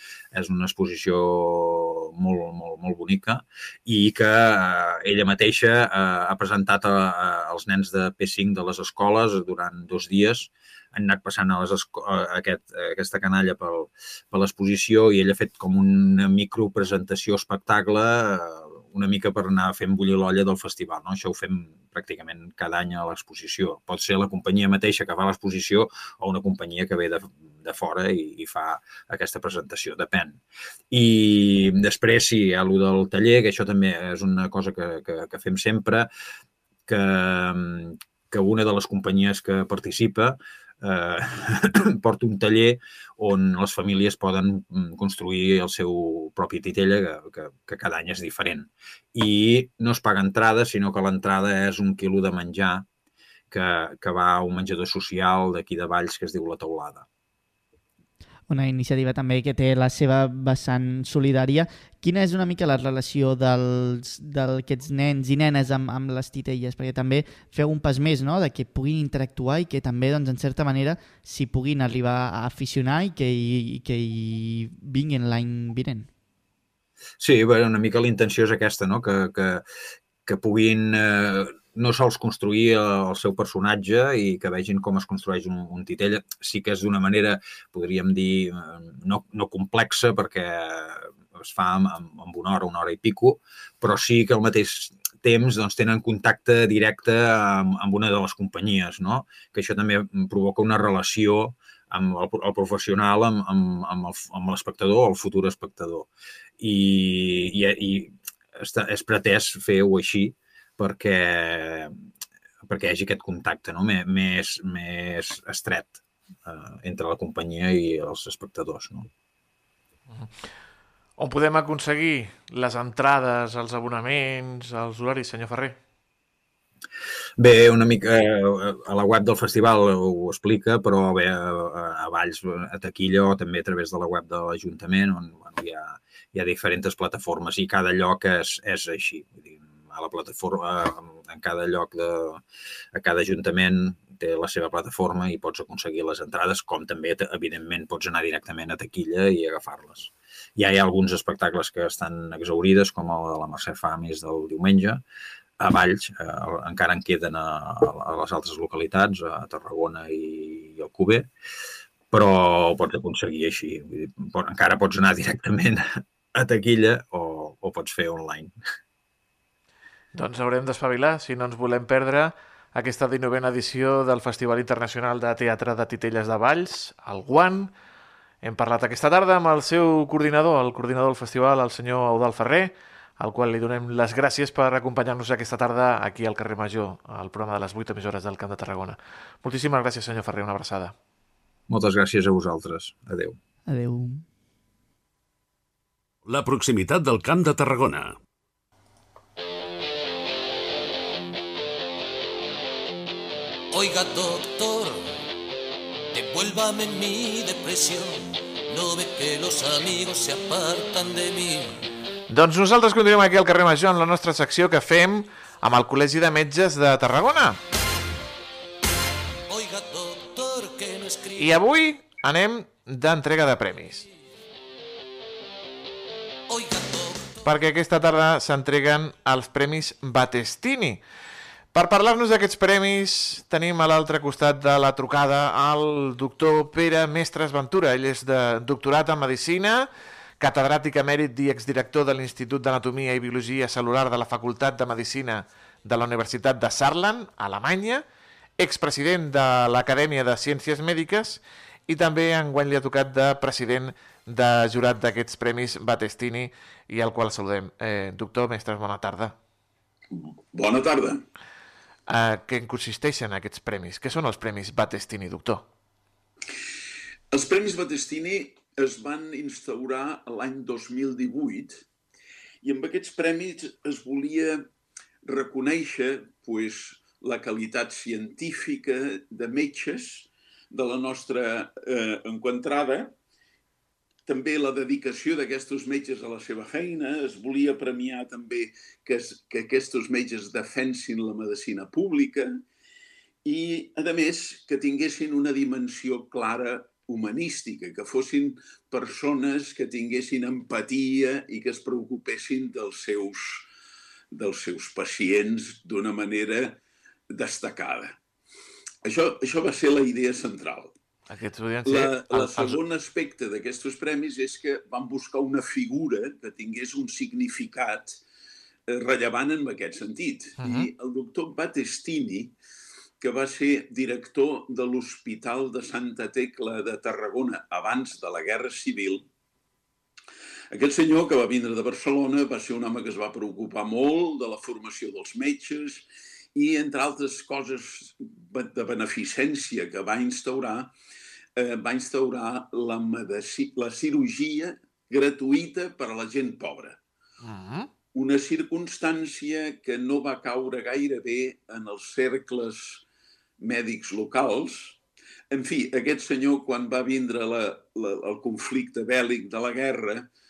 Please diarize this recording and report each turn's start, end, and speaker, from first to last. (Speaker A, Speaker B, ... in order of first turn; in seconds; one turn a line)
Speaker A: 0.3-36.1
Speaker A: 36.9-52.9
Speaker A: 53.5-57.0
Speaker B: 58.5-76.1
Speaker A: 77.2-79.6
Speaker A: 80.2-111.9
Speaker A: 112.6-119.1
Speaker C: 121.2-125.8
Speaker A: 127.4-142.4
Speaker A: 142.9-155.0
Speaker A: 155.6-161.3
Speaker A: 162.1-168.5
Speaker C: 170.1-177.7
Speaker C: 178.4-190.9
Speaker A: 191.7-193.4
Speaker B: 193.7-194.2
Speaker D: 196.2-198.2
Speaker E: 203.7-205.0
Speaker E: 206.1-211.8
Speaker C: 212.3-217.6
Speaker E: 219.5-221.6
Speaker C: 221.4-224.1
Speaker E: 226.5-227.4
Speaker C: 227.4-231.0
Speaker C: 231.7-248.0
Speaker C: 248.6-259.4
Speaker F: 260.1-261.2
Speaker C: 262.1-265.6
Speaker F: 267.3-271.8
Speaker F: 272.6-274.6
Speaker F: 275.2-283.1
Speaker F: 284.2-292.6
Speaker F: 293.4-303.7
Speaker F: 304.3-306.8
Speaker F: 307.3-308.2
Speaker F: 309.0-310.9
Speaker C: 311.3-312.8
Speaker F: 311.9-318.2
Speaker F: 318.9-322.5
Speaker C: 320.6-320.9
Speaker F: 323.2-329.2
Speaker F: 330.7-336.0
Speaker F: 336.5-340.9
Speaker F: 341.6-347.0
Speaker C: 347.4-347.9
Speaker F: 348.1-353.0
Speaker F: 353.6-355.0
Speaker F: 355.5-360.3